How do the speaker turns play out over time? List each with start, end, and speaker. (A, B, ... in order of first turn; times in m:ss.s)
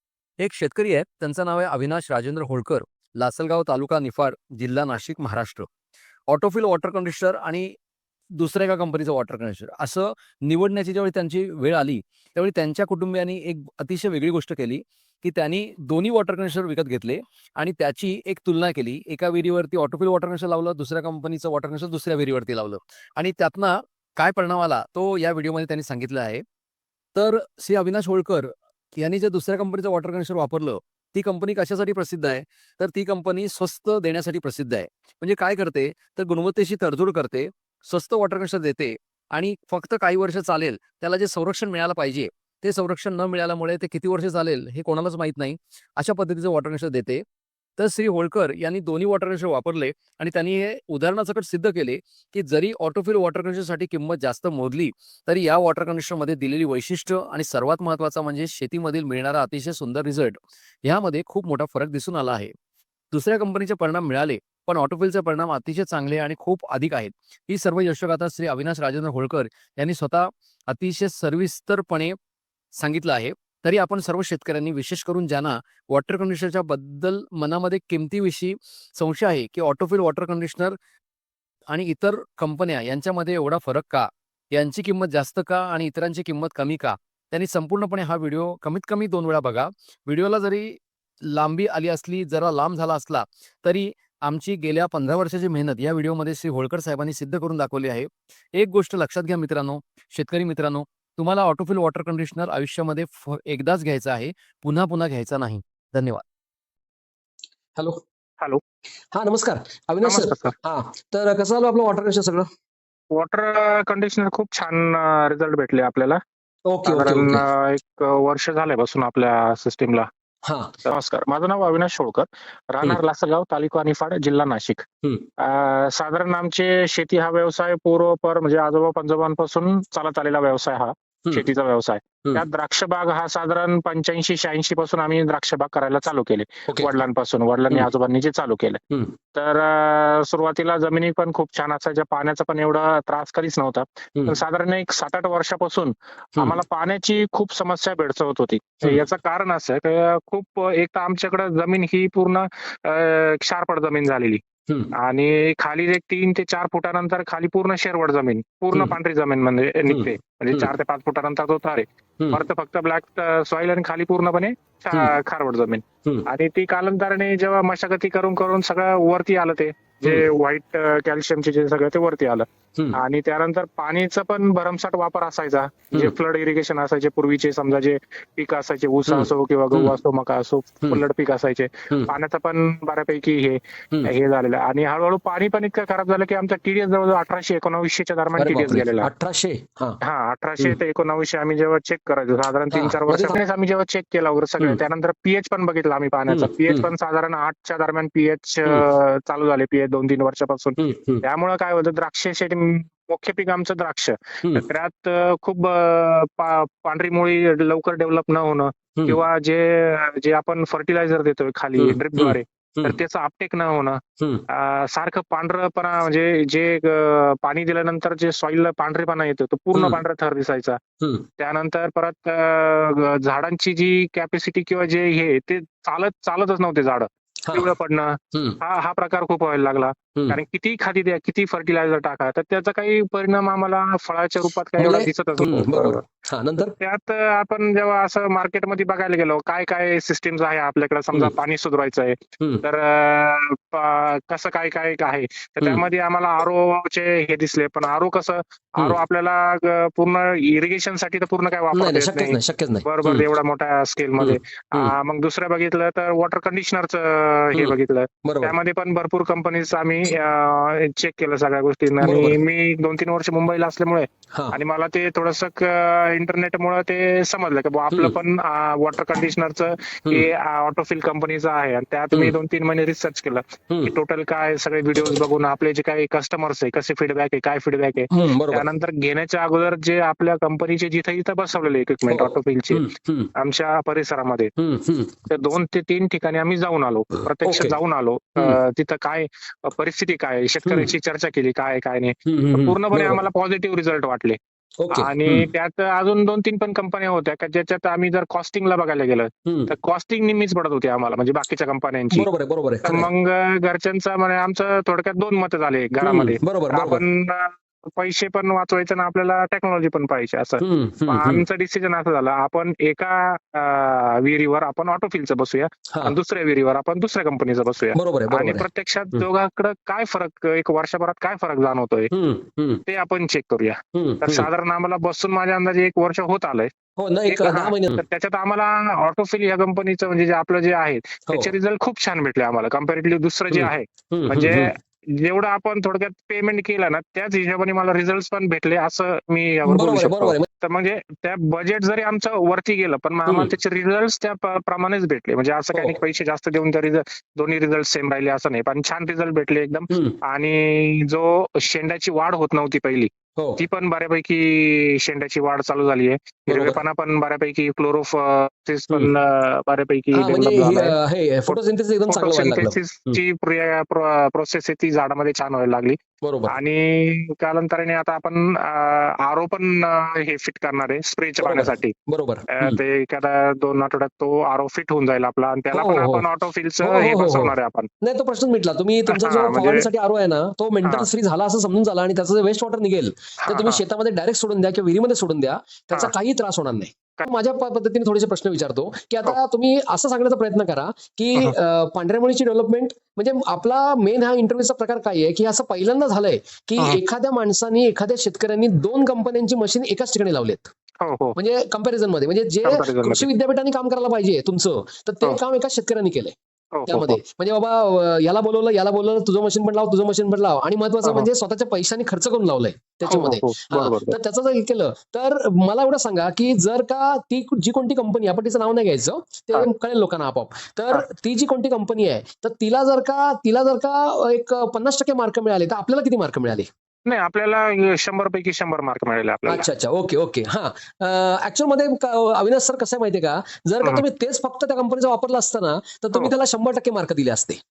0:00.4-0:05.7 A
0:06.3-0:07.7 A
0:08.4-0:26.4 A
0:27.1-0:47.2 A
0:47.8-1:02.5 A
1:03.1-1:12.2 A
1:12.8-1:20.8 A
1:21.7-1:46.2 A
1:49.1-1:52.5 B
1:50.0-1:50.5 C
1:53.1-1:56.2 C
1:56.7-1:57.4 B
1:56.8-2:00.1 C
2:00.4-2:00.7 B
2:00.8-2:04.8 C
2:05.4-2:18.8 C
2:19.3-2:34.4 C
2:35.0-3:09.1 C
2:39.8-2:40.7 B
2:59.1-2:59.9 B
3:08.4-3:10.0 B
3:10.0-3:40.8 C
3:12.7-3:13.4 B
3:16.3-3:16.9 B
3:20.8-3:21.2 B
3:31.8-3:33.0 B
3:34.2-3:34.4 B
3:39.7-3:40.0 B
3:41.0-3:41.2 B
3:41.4-3:56.0 C
3:47.4-3:47.7 B
3:54.8-3:56.7 B
3:56.8-4:44.5 C
4:11.7-4:13.3 B
4:14.2-4:14.9 B
4:18.2-4:18.5 B
4:22.0-4:22.4 B
4:24.3-4:24.6 B
4:27.9-4:28.2 B
4:33.7-4:33.9 B
4:38.1-4:38.7 B
4:42.1-4:43.3 B
4:44.6-4:45.2 B
4:45.3-4:54.4 C
4:47.4-4:47.8 B
4:52.2-4:53.2 B
4:54.8-4:55.5 B
4:54.9-5:02.3 C
4:59.4-4:59.7 B
5:02.1-5:03.1 B
5:02.8-5:22.1 C
5:06.0-5:07.0 B
5:10.6-5:11.4 B
5:17.9-5:19.2 B
5:22.1-5:22.8 B
5:22.8-5:26.7 C
5:23.9-5:24.5 B
5:27.0-5:28.0 B
5:27.3-6:06.0 C
5:33.5-5:34.7 B
5:39.6-5:40.4 B
5:43.2-5:43.5 B
5:49.9-5:50.2 B
5:53.4-5:53.6 B
5:56.5-5:56.8 B
6:00.1-6:03.2 B
6:06.2-6:06.6 B
6:06.5-6:11.9 C
6:11.4-6:12.8 B
6:12.5-6:17.9 C
6:15.7-6:16.3 B
6:16.8-6:40.7 B
6:19.1-6:19.9 C
6:23.4-6:23.8 C
6:41.0-6:41.4 C
6:41.4-6:46.3 B
6:42.6-6:43.3 C
6:46.7-6:47.2 C
6:46.9-7:06.7 B
6:53.1-6:54.2 C
7:07.0-7:09.7 C
7:09.4-7:17.6 B